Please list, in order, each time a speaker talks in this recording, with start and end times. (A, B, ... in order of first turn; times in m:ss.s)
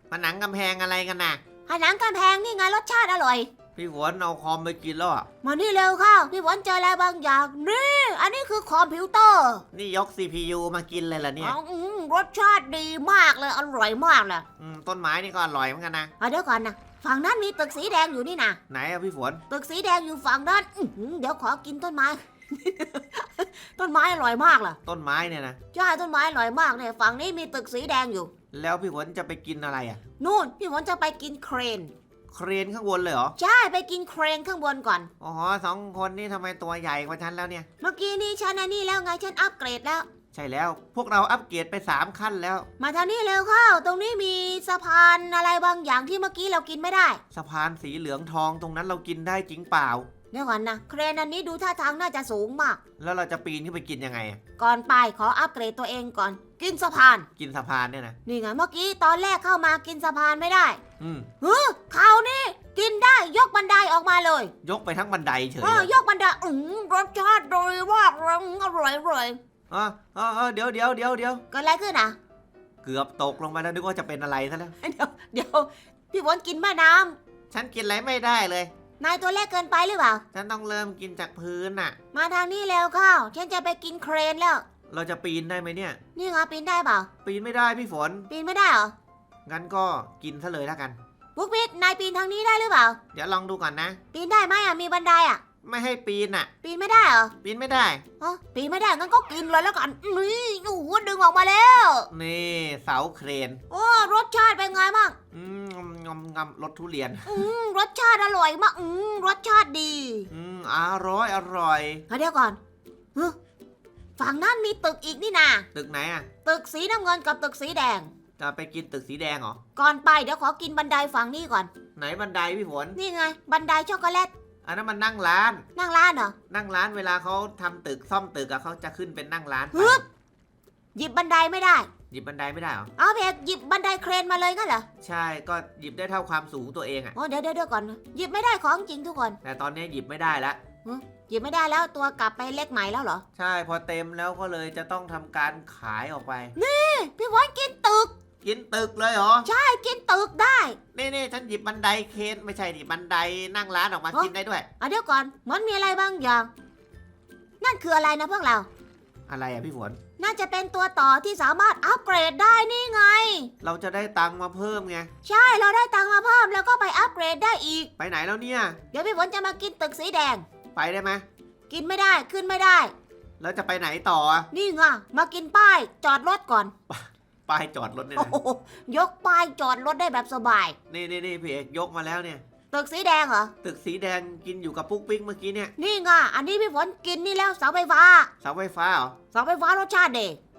0:00.1-0:01.4 A
0:01.6-0:03.5 B
0:03.8-0:05.3 A
0:05.4-0:09.6 B
0:09.7-0:11.6 A
0:11.4-0:14.5 B
0:14.6-0:16.1 A
0:16.2-0:18.6 B
0:18.7-0:19.4 A
0:19.5-0:24.8 B
0:24.8-0:25.6 A
0:25.7-0:28.3 B
0:28.5-0:30.0 A
0:30.2-0:31.9 B
0:32.3-0:33.4 A
0:33.4-0:35.1 B
0:35.2-0:37.7 A
0:37.8-0:40.1 B
0:40.3-0:42.7 A
0:42.8-0:47.2 B
0:47.3-0:50.1 A
0:50.3-0:52.8 B
0:53.0-0:54.4 A
0:54.6-0:57.3 B
0:57.4-0:58.2 A
0:58.3-1:00.8 B
1:01.0-1:01.3 A
1:01.4-1:04.5 B
1:04.6-1:05.9 A
1:05.6-1:09.4 B
1:09.7-1:11.4 A
1:11.5-1:12.2 B
1:12.8-1:14.8 A
1:14.8-1:17.2 B
1:17.5-1:18.7 A
1:19.0-1:20.2 B
1:20.3-1:22.0 A
1:22.1-1:24.6 B
1:24.9-1:26.0 A
1:26.2-1:27.1 B
1:27.2-1:28.3 A
1:28.3-1:28.9 B
1:29.5-1:31.0 A
1:31.4-1:33.0 B
1:33.1-1:34.0 A
1:34.1-1:35.4 B
1:35.6-1:36.5 A
1:36.6-1:37.3 B
1:37.4-1:38.0 A
1:38.2-1:42.1 B
1:42.1-1:43.6 A
1:43.7-1:45.2 B
1:45.3-1:47.4 A
1:47.3-1:50.3 B
1:50.3-1:52.0 A
1:52.1-1:52.6 B
1:54.2-1:55.7 B
1:55.7-1:56.3 A
1:56.4-1:58.1 B
1:58.4-1:59.6 A
1:59.8-2:01.7 B
2:02.0-2:03.0 A
2:03.0-2:04.3 B
2:04.6-2:05.7 A
2:05.8-2:06.4 B
2:06.5-2:10.0 A
2:09.7-2:10.0 B
2:11.0-2:11.9 B
2:12.1-2:12.9 A
2:13.0-2:14.9 B
2:15.0-2:17.1 A
2:17.2-2:19.4 B
2:19.4-2:20.6 A
2:20.8-2:23.2 B
2:23.4-2:26.6 A
2:26.6-2:28.1 B
2:28.4-2:29.5 A
2:29.4-2:30.8 B
2:31.0-2:34.7 A
2:34.1-2:36.5 B
2:37.6-2:38.7 B
2:39.3-2:40.0 A
2:40.2-2:43.5 B
2:43.6-2:45.1 A
2:45.2-2:47.9 B
2:48.0-2:48.8 A
2:48.9-2:50.4 B
2:50.8-2:51.2 A
2:51.7-2:52.9 B
2:53.4-2:54.5 A
2:54.5-2:56.7 B
2:56.9-2:58.4 A
2:58.2-3:00.8 B
3:00.9-3:02.4 A
3:02.7-3:03.5 B
3:03.6-3:05.7 A
3:05.8-3:08.3 B
3:08.4-3:09.2 A
3:09.3-3:10.4 B